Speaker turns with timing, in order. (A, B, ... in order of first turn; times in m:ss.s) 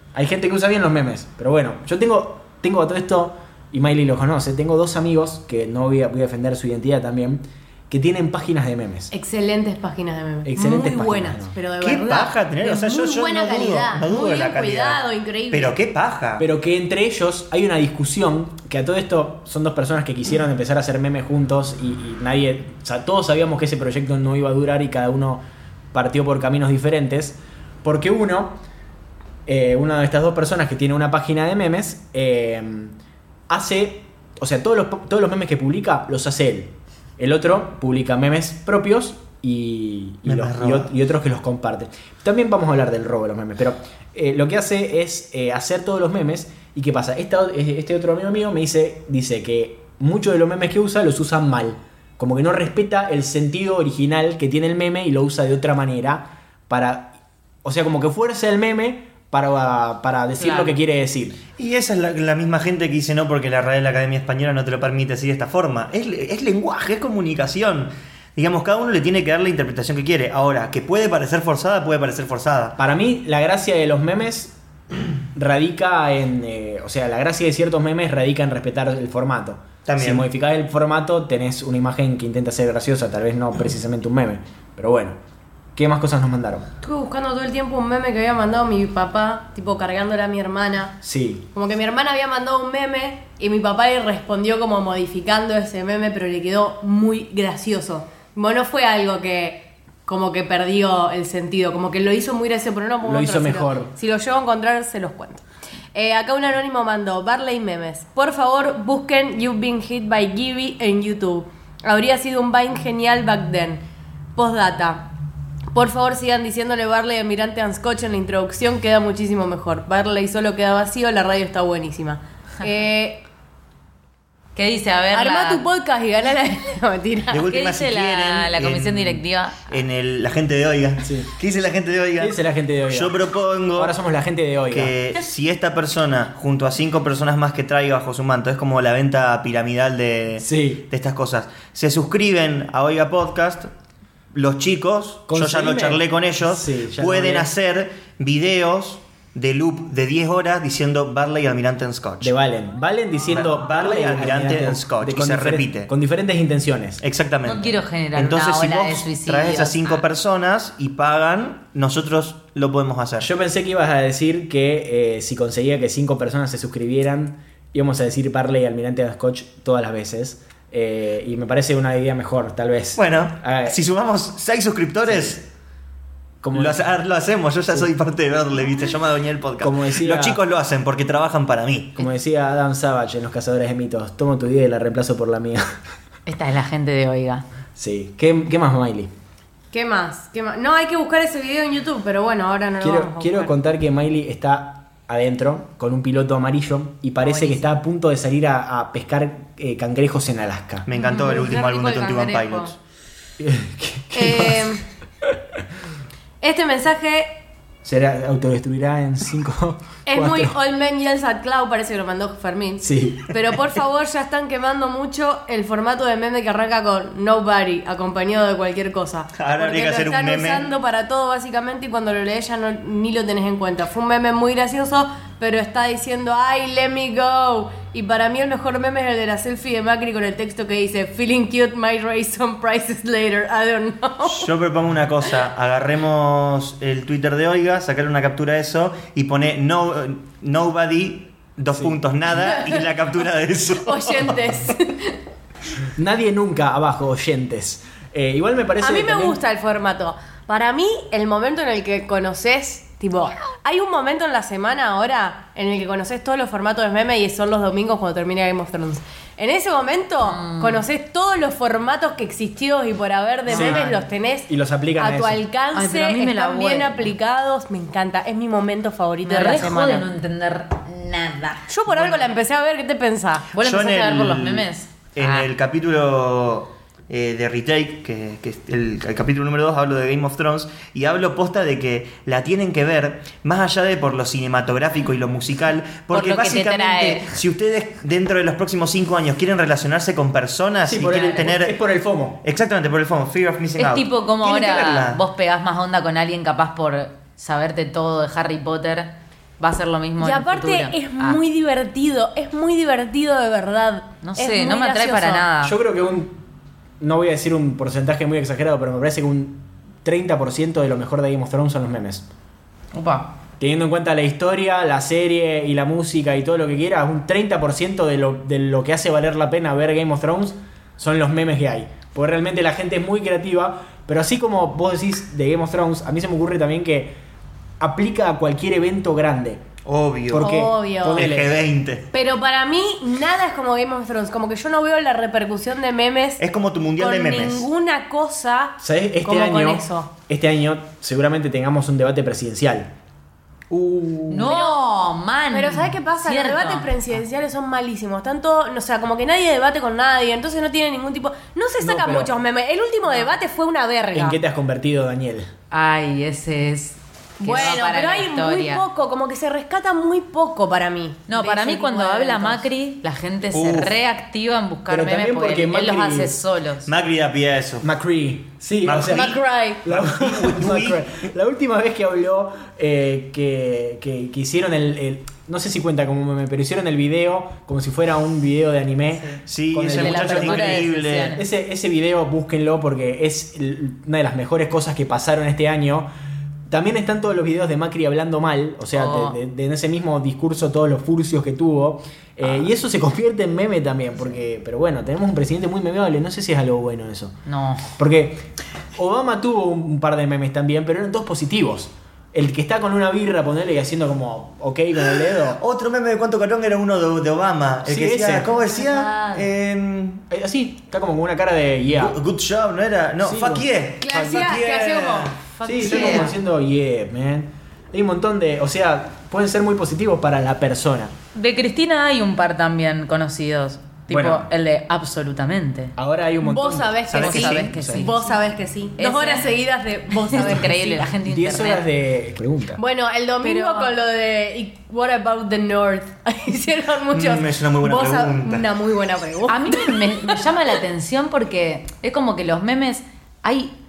0:00.1-0:09.1 A
0:09.1-0:15.8 B
0:10.4-0:11.6 A
0:11.8-0:16.4 C
0:16.4-0:25.4 A
0:25.9-0:28.6 A
0:29.5-0:33.0 A
0:33.5-1:01.4 A
0:40.2-0:40.9 C
1:00.4-1:00.8 D
1:01.6-1:12.8 C
1:12.8-1:14.5 A
1:15.3-1:25.2 A
1:19.9-1:20.3 C
1:25.8-1:26.7 A
1:26.8-1:31.0 B
1:31.0-1:31.5 A
1:31.5-1:53.8 B
1:43.0-1:43.9 A
1:54.4-1:55.1 B
1:55.7-2:03.2 B
2:04.6-2:05.6 D
2:05.1-2:07.5 B
2:07.3-2:12.4 C
2:07.5-2:09.7 D
2:11.0-2:11.3 A
2:12.2-2:13.2 A
2:12.9-2:13.9 C
2:13.8-2:14.9 A
2:14.7-2:23.7 C
2:20.4-2:20.8 A
2:24.3-2:32.3 C
2:25.3-2:27.5 A
2:32.2-2:37.0 A
2:33.3-2:35.9 C
2:37.0-2:43.3 C
2:37.4-2:40.0 D
2:43.2-2:53.8 A
2:53.0-2:55.4 C
2:55.1-2:55.4 A
2:56.4-2:56.9 A
2:56.5-3:02.0 C
2:59.6-3:00.4 A
3:02.0-3:05.7 A
3:06.3-3:07.4 D
3:07.8-3:09.1 A
3:09.7-3:13.5 B
3:12.8-3:20.9 A
3:17.2-3:17.7 D
3:20.9-3:22.8 C
3:21.0-3:22.3 B
3:21.0-3:22.7 D
3:23.4-3:25.3 A
3:24.1-3:24.8 B
3:26.4-3:27.4 B
3:27.8-3:30.6 A
3:30.1-3:54.5 B
3:32.8-3:33.3 A
3:39.4-3:40.7 C
3:54.2-4:04.6 C
4:02.5-4:02.8 B
4:03.8-4:05.2 B
4:06.0-4:09.4 A
4:08.8-4:30.1 B
4:20.2-4:20.8 D
4:23.5-4:24.0 D
4:23.5-4:23.8 A
4:24.5-4:25.4 A
4:25.7-4:27.1 D
4:29.2-4:31.7 D
4:31.7-4:33.5 B
4:31.9-4:32.2 C
4:33.5-4:35.5 D
4:33.6-4:51.8 C
4:46.1-4:47.4 D
4:50.8-4:52.4 A
4:52.4-4:55.2 C
4:53.8-5:01.4 D
5:00.2-5:05.5 B
5:04.2-5:05.8 D
5:05.6-5:06.4 A
5:07.0-5:12.2 A
5:12.9-5:13.3 D
5:13.6-5:27.2 A
5:27.8-5:29.6 A
5:29.8-5:30.5 C
5:30.3-5:31.6 A
5:30.4-5:31.3 B
5:31.1-5:32.1 C
5:32.1-5:36.4 B
5:36.4-5:37.7 C
5:37.0-5:40.1 B
5:38.8-5:42.9 A
5:43.7-5:44.6 A
5:44.3-5:47.1 D
5:44.4-5:44.8 B
5:45.5-5:54.4 B
5:51.8-5:52.3 A
5:54.1-5:55.5 A
5:55.7-5:58.8 D
5:57.4-6:02.7 B
6:01.3-6:06.9 D
6:03.5-6:04.0 C
6:04.9-6:06.4 A
6:06.9-6:07.9 C
6:07.8-6:26.1 A
6:08.8-6:11.2 C
6:09.1-6:09.8 B
6:19.2-6:21.4 D
6:19.5-6:21.4 C
6:26.7-6:37.4 A
6:28.9-6:29.4 D
6:37.5-6:37.9 D
6:37.9-6:45.6 A
6:45.6-6:50.2 C
6:47.9-6:48.5 A
6:48.6-6:49.4 D
6:50.3-6:52.2 A
6:51.9-6:56.3 C
6:53.2-6:54.5 A
6:54.0-6:56.3 B
6:55.6-6:56.3 D
6:55.6-7:01.1 A
7:01.4-7:06.0 D
7:04.1-7:04.5 A
7:06.0-7:07.2 A
7:06.4-7:11.1 B
7:07.1-7:07.7 C
7:07.2-7:08.4 D
7:07.7-7:08.1 A
7:09.0-7:09.5 D
7:10.1-7:11.8 D
7:11.2-7:12.8 A
7:12.8-7:20.4 B
7:13.4-7:13.9 D
7:17.1-7:18.7 C
7:19.5-7:23.7 D